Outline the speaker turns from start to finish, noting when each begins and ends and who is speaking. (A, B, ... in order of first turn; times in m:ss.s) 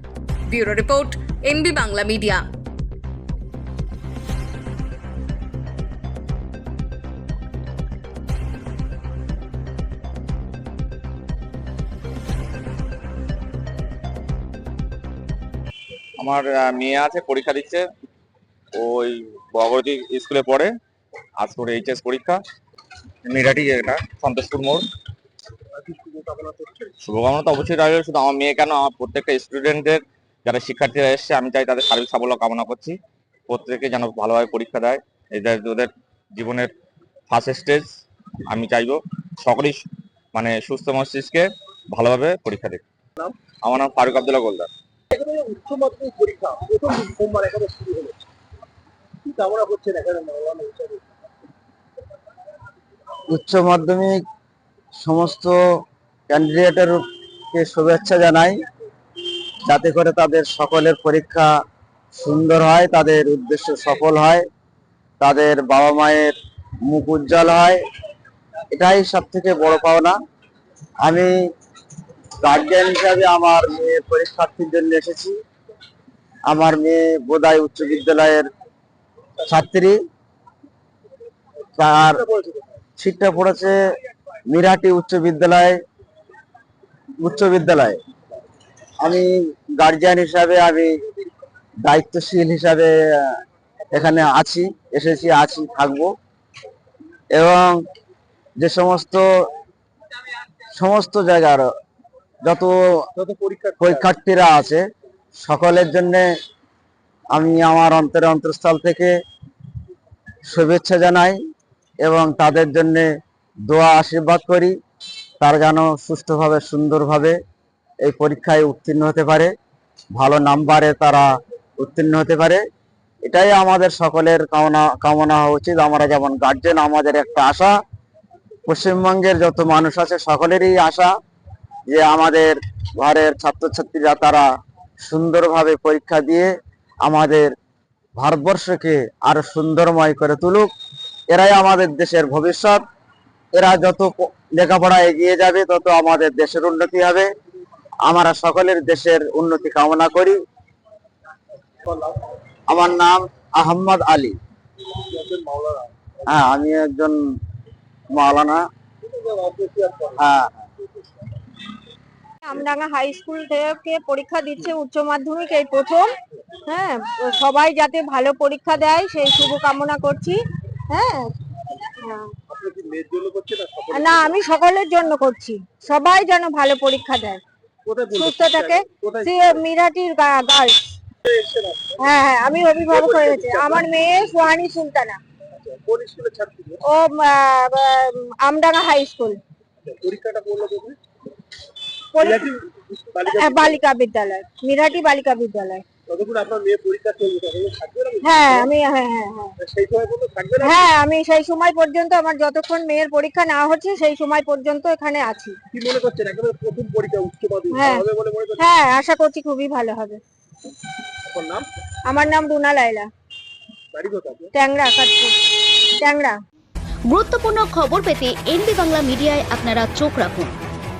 0:00.5-0:02.4 A
0:16.2-0:17.8 B
0:18.7-0:20.7 B
0:21.4-0:22.4 B
0:23.2-0:24.8 B
0:25.8-0:26.9 C
0:27.0-0:33.0 B
0:33.5-0:36.7 B
0:37.3-0:37.9 B
0:38.5-0:42.8 B
0:43.6-0:44.7 B
0:45.1-0:48.2 C
0:49.2-0:51.0 C
0:53.3-0:54.2 D
0:55.0-0:55.6 D
0:56.3-0:58.6 D
0:59.7-1:01.5 D
1:02.2-1:04.4 D
1:05.2-1:06.3 D
1:06.8-1:07.8 D
1:08.7-1:10.1 D
1:11.0-1:11.3 D
1:12.4-1:15.4 D
1:16.5-1:18.4 D
1:19.4-1:20.0 D
1:21.8-1:22.2 D
1:22.0-1:22.8 C
1:23.0-1:23.8 D
1:24.5-1:25.8 D
1:27.2-1:28.0 D
1:29.0-1:31.0 D
1:31.8-1:33.4 D
1:33.9-1:36.1 D
1:37.3-1:37.8 D
1:38.6-1:39.3 D
1:40.8-1:41.6 D
1:42.4-1:42.8 D
1:43.2-1:44.0 C
1:43.8-1:44.8 D
1:45.4-1:46.3 D
1:47.3-1:49.1 D
1:50.5-1:51.4 D
1:52.0-1:53.1 D
1:53.7-1:54.7 D
1:55.4-1:57.4 D
1:58.0-1:59.5 D
2:00.1-2:01.3 D
2:01.8-2:02.6 D
2:03.2-2:07.7 D
2:08.6-2:11.1 D
2:11.9-2:14.4 D
2:15.0-2:16.5 D
2:17.0-2:17.5 D
2:18.2-2:20.7 D
2:21.3-2:22.8 D
2:23.5-2:27.3 D
2:28.0-2:30.4 D
2:31.8-2:32.3 C
2:32.7-2:34.4 D
2:35.1-2:35.9 C
2:36.3-2:37.2 D
2:38.1-2:38.6 D
2:39.0-2:40.2 C
2:40.2-2:40.6 D
2:42.4-2:46.1 E
2:46.6-2:50.4 E
2:50.9-2:51.3 E
2:52.0-2:52.3 E
2:52.5-2:54.4 C
2:53.9-2:57.4 E
2:57.8-2:59.6 C
2:58.1-3:00.9 E
3:01.2-3:02.0 C
3:02.0-3:05.2 E
3:02.9-3:03.9 C
3:05.5-3:06.8 C
3:06.9-3:09.4 E
3:09.8-3:11.0 C
3:12.1-3:12.4 E
3:12.2-3:13.8 C
3:13.2-3:15.8 E
3:16.0-3:18.7 C
3:18.2-3:19.5 E
3:19.6-3:20.9 C
3:20.6-3:25.6 E
3:25.7-3:28.6 C
3:27.7-3:28.0 E
3:28.6-3:30.2 E
3:31.2-3:31.7 C
3:32.1-3:33.1 E
3:33.9-3:34.5 C
3:34.5-3:35.4 E
3:35.9-3:36.4 E
3:37.1-3:40.5 F